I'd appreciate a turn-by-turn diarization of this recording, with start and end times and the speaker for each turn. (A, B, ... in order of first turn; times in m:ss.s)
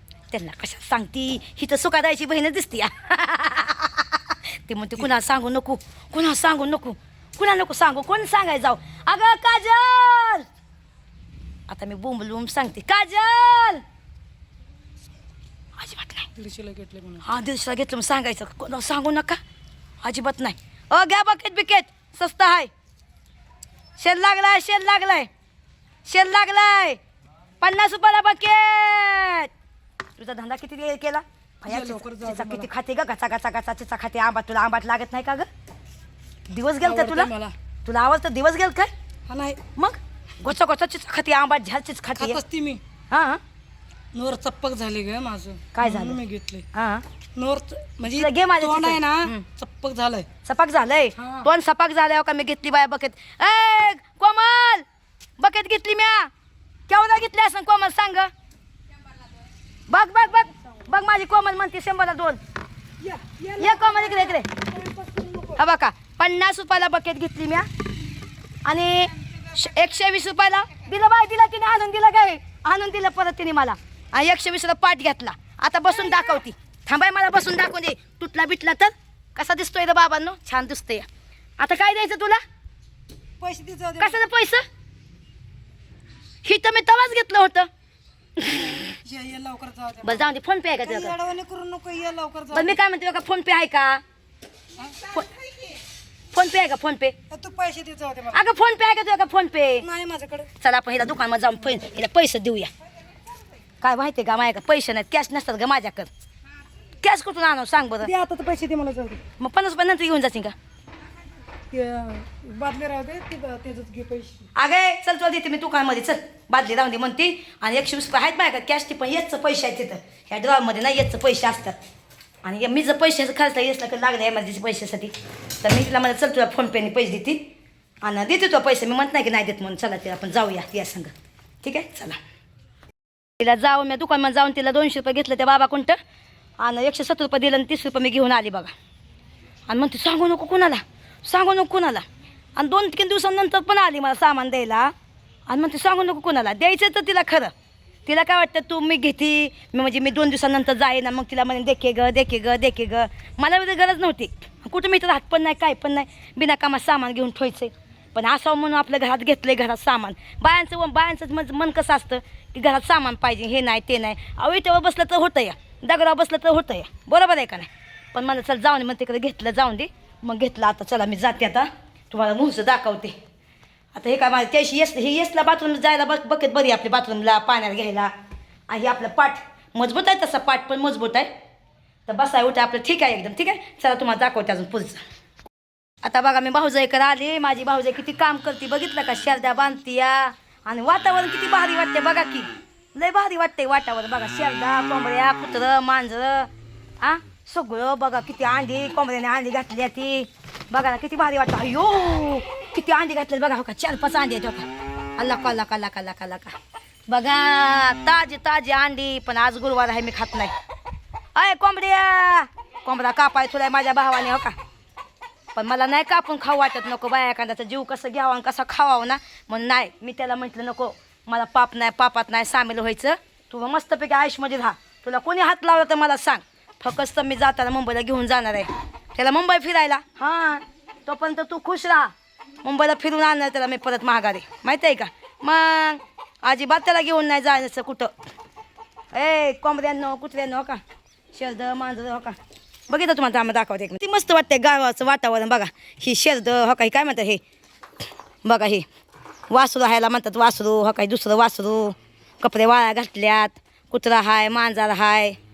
0:00.3-0:10.5 A
0:11.7-0:13.8 A
0:15.8-0:16.3 A
0:16.4-0:17.2 B
0:17.2-0:19.4 A
0:20.0-0:22.7 A
0:24.0-0:25.3 A
0:26.0-0:27.0 A
0:27.6-0:29.5 A
0:30.2-0:35.5 A
0:31.6-0:32.7 B
0:36.5-0:37.3 A
0:36.8-0:37.5 B
0:37.8-0:38.9 A
0:39.3-0:39.6 B
0:39.8-0:42.4 A
0:42.2-0:42.8 B
0:43.1-0:43.4 A
0:44.1-0:46.7 B
0:45.7-0:46.2 A
0:46.7-0:47.0 A
0:47.4-0:50.3 B
0:48.0-0:49.5 A
0:50.4-0:54.8 A
0:51.2-0:51.5 B
0:55.4-0:56.3 A
0:56.9-0:58.3 A
0:59.9-1:02.4 A
1:03.0-1:05.6 B
1:03.6-1:04.5 A
1:05.6-1:07.7 A
1:08.6-1:21.1 A
1:21.6-1:22.4 A
1:23.4-1:24.2 B
1:24.0-1:24.6 A
1:26.4-1:27.7 A
1:28.4-1:28.9 A
1:28.9-1:30.3 B
1:30.0-1:31.1 A
1:30.8-1:32.8 B
1:32.5-1:34.0 A
1:34.8-1:35.1 B
1:36.3-1:37.2 A
1:37.3-1:38.4 B
1:38.3-1:39.9 A
1:39.8-1:40.5 B
1:40.6-1:42.7 A
1:43.8-1:46.1 A
1:47.0-1:48.1 A
1:48.0-1:49.2 B
1:49.4-1:50.6 A
1:51.7-1:54.5 B
1:54.6-2:01.8 A
2:02.4-2:07.4 A
2:08.0-2:11.1 A
2:11.6-2:12.2 A
2:13.4-2:16.0 A
2:16.6-2:18.7 A
2:19.7-2:22.0 A
2:22.6-2:24.9 A
2:25.5-2:27.5 A
2:28.1-2:53.2 A
2:54.0-2:58.1 A
2:58.7-3:01.3 A
3:02.1-3:05.0 A
3:06.0-3:16.5 A
3:17.0-3:26.6 A
3:27.1-3:30.5 A
3:31.3-3:34.6 A
3:35.6-3:58.1 A
3:59.1-4:00.8 A
4:01.3-4:02.4 A
4:02.9-4:07.4 A
4:08.4-4:08.9 A
4:09.5-4:15.4 A